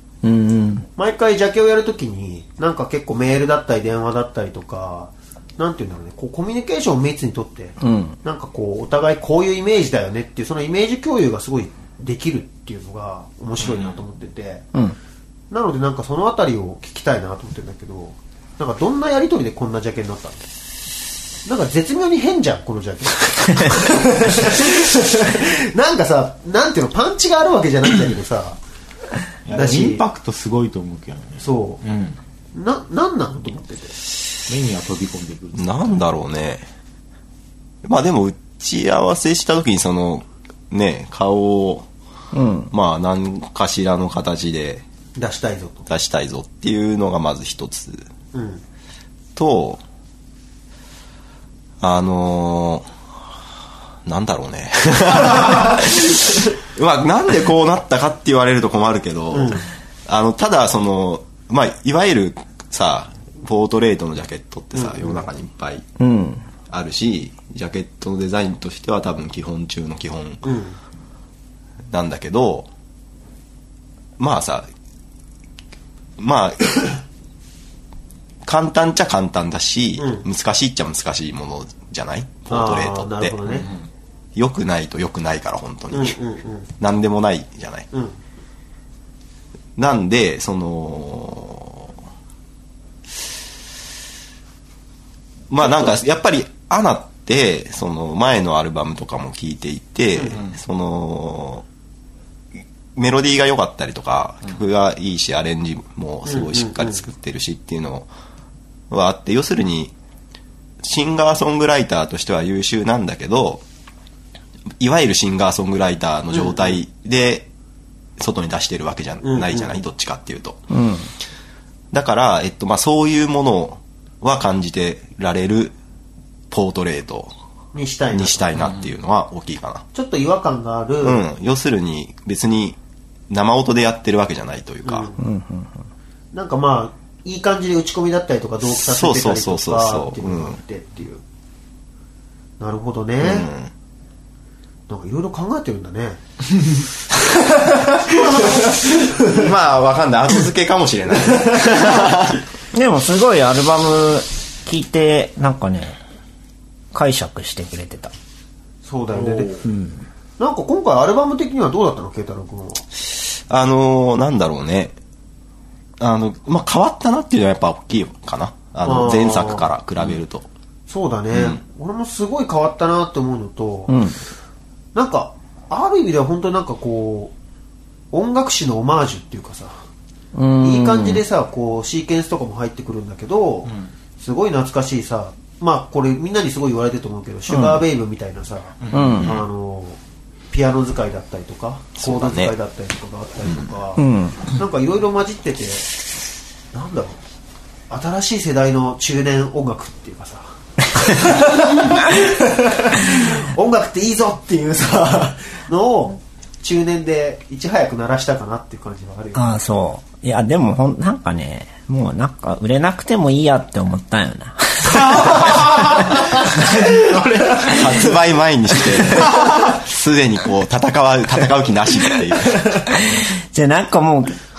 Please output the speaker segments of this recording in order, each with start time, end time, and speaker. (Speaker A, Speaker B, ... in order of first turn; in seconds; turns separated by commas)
Speaker A: 0.2-0.9, Speaker B: 0.9-14.7, Speaker A: 7.8-8.2, Speaker C: 13.6-13.9, Speaker B: 15.5-20.4, Speaker B: 21.4-28.6, Speaker C: 29.4-32.2, Speaker B: 29.5-30.0, Speaker B: 31.4-31.8, Speaker B: 32.5-34.0, Speaker C: 34.5-36.0, Speaker D: 35.5-36.6, Speaker D: 37.8-41.9, Speaker A: 42.3-42.7, Speaker D: 42.7-44.8, Speaker B: 45.1-45.9, Speaker D: 45.9-48.0, Speaker B: 48.3-48.6, Speaker D: 49.4-49.8, Speaker D: 51.8-52.9, Speaker D: 54.0-65.8, Speaker B: 59.3-59.6, Speaker B: 64.7-65.2, Speaker A: 66.0-66.4, Speaker D: 66.7-70.5, Speaker B: 70.4-70.8, Speaker D: 71.9-72.7, Speaker D: 74.2-74.7, Speaker D: 76.2-76.8, Speaker D: 78.4-83.6, Speaker B: 80.0-80.2, Speaker B: 82.5-83.7, Speaker D: 84.3-86.2, Speaker B: 85.9-86.7, Speaker D: 86.8-87.9, Speaker D: 89.8-91.9, Speaker D: 95.5-101.6, Speaker D: 103.0-108.1, Speaker B: 106.3-107.0, Speaker D: 108.9-109.9, Speaker D: 110.8-113.6, Speaker D: 114.8-117.5, Speaker D: 118.2-120.6, Speaker B: 119.2-119.7, Speaker A: 120.7-121.1, Speaker D: 121.9-125.7, Speaker D: 126.5-127.3, Speaker B: 127.7-128.5, Speaker D: 128.1-129.8, Speaker B: 129.9-131.2, Speaker D: 131.0-132.8, Speaker D: 133.3-135.1, Speaker B: 134.8-135.2, Speaker A: 135.2-135.7, Speaker B: 136.3-141.2, Speaker D: 138.6-140.6, Speaker B: 142.6-143.5, Speaker D: 143.2-143.7, Speaker B: 144.9-146.2, Speaker B: 147.4-149.4, Speaker D: 148.6-152.4, Speaker A: 152.7-156.0, Speaker A: 156.9-158.1, Speaker B: 158.8-159.7, Speaker C: 159.2-159.5, Speaker A: 159.6-160.0, Speaker B: 160.4-162.8, Speaker D: 163.1-164.9, Speaker D: 166.0-170.5, Speaker B: 168.8-169.7, Speaker B: 170.9-174.0, Speaker D: 171.3-171.6, Speaker A: 173.9-174.2, Speaker B: 174.9-177.3, Speaker B: 178.1-179.7, Speaker A: 180.3-181.2, Speaker B: 180.6-190.0, Speaker A: 187.5-187.8, Speaker C: 188.8-189.3, Speaker A: 188.9-189.4, Speaker B: 190.5-195.9, Speaker D: 192.0-192.5, Speaker D: 193.4-193.7, Speaker A: 194.0-194.4, Speaker B: 196.7-197.2, Speaker B: 197.9-209.5, Speaker A: 209.3-215.7, Speaker C: 215.2-218.1, Speaker D: 217.6-222.8, Speaker C: 218.9-219.6, Speaker A: 222.9-224.4